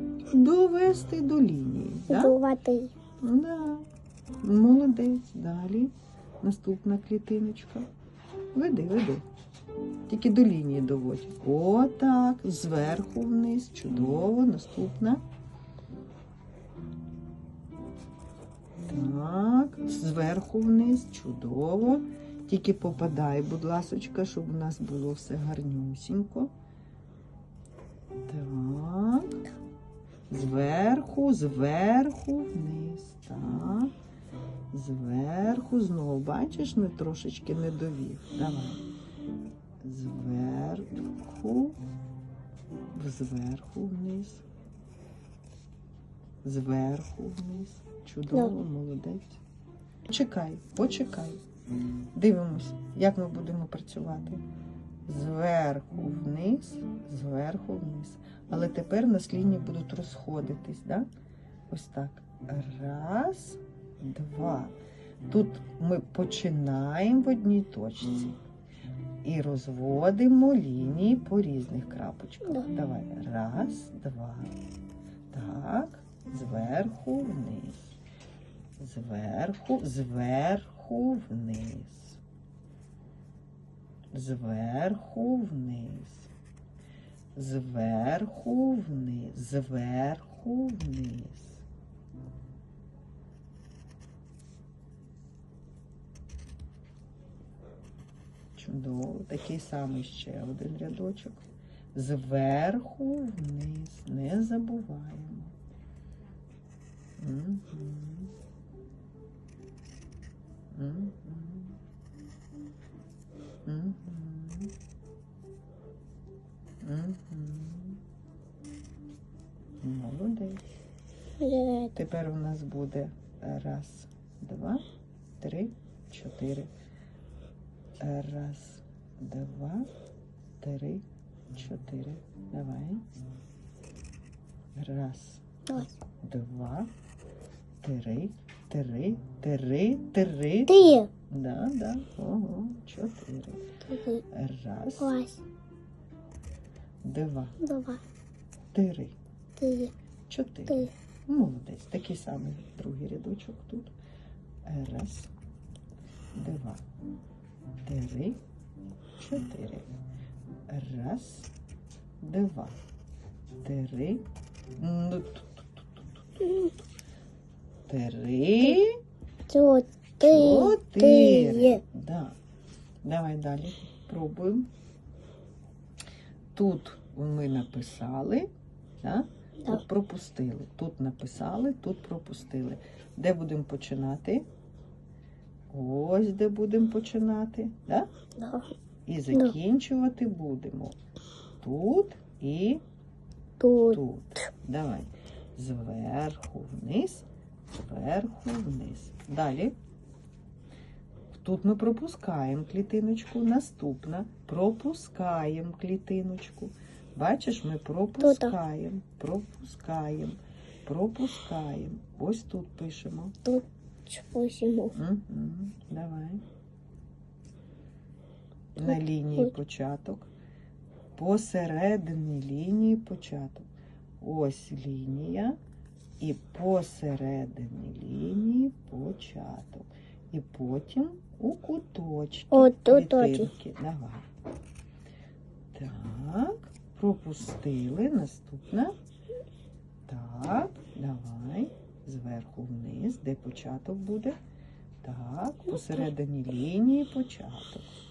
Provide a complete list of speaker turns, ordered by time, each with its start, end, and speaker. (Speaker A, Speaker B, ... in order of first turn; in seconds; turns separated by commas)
Speaker A: 0.3-2.3, Speaker B: 2.1-2.9, Speaker A: 3.2-3.9, Speaker A: 4.4-7.9, Speaker A: 8.5-9.2, Speaker A: 10.1-15.2, Speaker A: 18.9-26.5, Speaker A: 28.2-29.4, Speaker A: 30.3-33.9, Speaker A: 34.7-38.8, Speaker A: 39.8-41.8, Speaker A: 42.9-44.4, Speaker A: 46.4-49.4, Speaker A: 50.1-51.4, Speaker A: 52.1-54.4, Speaker A: 55.1-61.1, Speaker A: 61.7-64.7, Speaker A: 65.3-68.4, Speaker A: 69.2-74.5, Speaker A: 75.3-78.0, Speaker A: 78.8-82.2, Speaker A: 84.1-86.3, Speaker A: 87.3-91.6, Speaker A: 98.6-101.4, Speaker A: 101.9-105.5, Speaker A: 107.2-108.3, Speaker A: 110.7-111.8, Speaker A: 113.7-114.7, Speaker A: 116.8-118.0, Speaker A: 119.8-120.6, Speaker B: 121.4-122.0, Speaker A: 121.9-124.8, Speaker A: 125.4-126.7, Speaker A: 128.0-129.9, Speaker A: 130.6-133.0, Speaker A: 134.8-136.9, Speaker A: 137.8-143.6, Speaker B: 140.7-141.1, Speaker B: 143.9-144.2, Speaker A: 144.3-145.2, Speaker B: 145.0-145.4, Speaker A: 147.0-147.6, Speaker B: 147.6-148.0, Speaker A: 148.7-149.2, Speaker B: 149.6-149.9, Speaker A: 150.3-153.9, Speaker A: 154.7-155.3, Speaker A: 156.3-156.8, Speaker A: 157.8-158.4, Speaker A: 159.2-159.9, Speaker A: 160.7-161.5, Speaker A: 162.2-162.8, Speaker A: 163.6-164.2, Speaker A: 164.8-166.1, Speaker B: 166.4-166.7, Speaker A: 167.9-169.0, Speaker B: 169.5-171.8, Speaker A: 170.2-172.4, Speaker A: 173.0-174.7, Speaker A: 176.6-178.5, Speaker A: 179.0-184.5, Speaker A: 185.7-188.1, Speaker B: 188.4-188.7, Speaker A: 189.1-191.0, Speaker A: 191.6-192.8, Speaker B: 193.6-194.0, Speaker A: 193.9-199.7, Speaker A: 201.3-213.3, Speaker B: 208.2-208.6, Speaker B: 213.4-215.0, Speaker A: 214.9-216.4, Speaker A: 218.8-220.3, Speaker B: 218.8-219.5, Speaker A: 221.2-223.7, Speaker A: 224.2-225.6, Speaker A: 226.2-234.3, Speaker B: 232.5-233.5, Speaker A: 235.7-238.9, Speaker A: 240.1-244.4, Speaker A: 245.0-247.9